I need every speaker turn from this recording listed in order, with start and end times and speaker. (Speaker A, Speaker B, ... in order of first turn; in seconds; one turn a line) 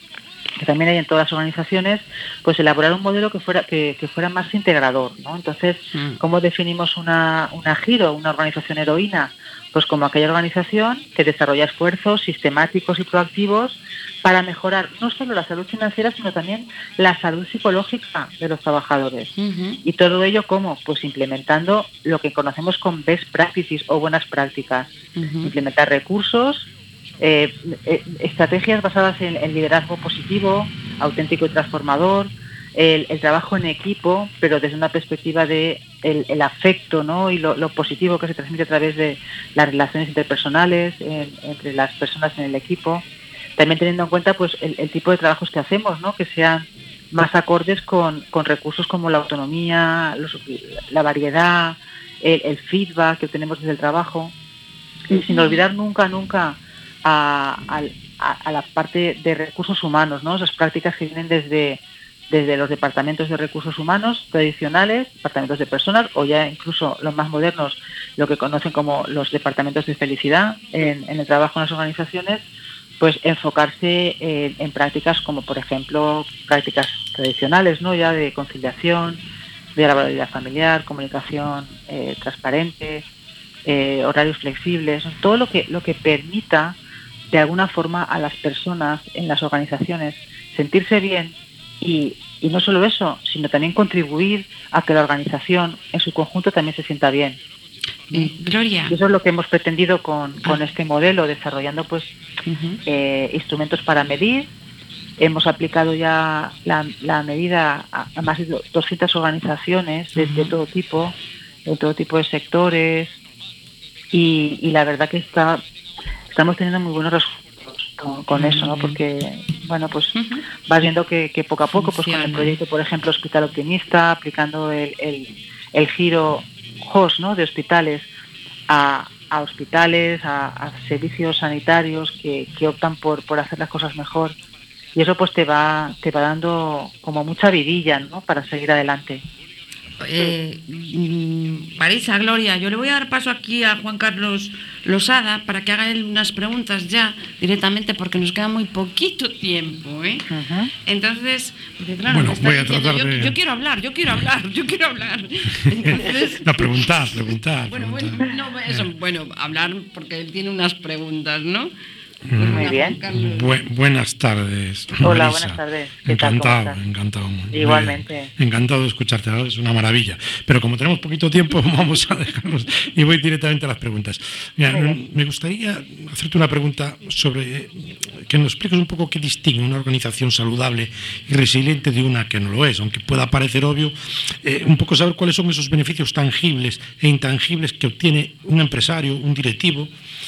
Speaker A: 0.6-19.3
Speaker B: 5.9-6.2
Speaker B: 19.4-19.8
Speaker A: 19.8-26.6
Speaker B: 25.1-25.5
Speaker A: 27.2-43.0
Speaker A: 43.6-54.3
Speaker A: 55.1-72.4
Speaker A: 73.0-79.2
Speaker A: 79.8-83.0
Speaker A: 83.7-86.8
Speaker A: 87.3-97.4
Speaker B: 98.1-99.0
Speaker A: 98.9-102.1
Speaker B: 102.5-102.8
Speaker A: 102.8-104.5
Speaker A: 105.2-111.1
Speaker B: 110.1-110.5
Speaker A: 111.7-113.2
Speaker A: 114.1-115.6
Speaker A: 116.3-120.1
Speaker B: 118.3-119.0
Speaker B: 120.1-120.4
Speaker A: 120.7-128.1
Speaker B: 121.7-122.6
Speaker A: 128.7-134.3
Speaker A: 134.9-139.2
Speaker B: 140.0-150.3
Speaker A: 150.3-150.7
Speaker B: 150.8-156.4
Speaker C: 152.1-153.3
Speaker C: 155.7-158.8
Speaker B: 157.7-161.7
Speaker C: 162.3-189.9
Speaker B: 162.4-163.5
Speaker A: 162.4-163.0
Speaker A: 165.0-166.8
Speaker A: 167.5-168.3
Speaker A: 174.7-175.0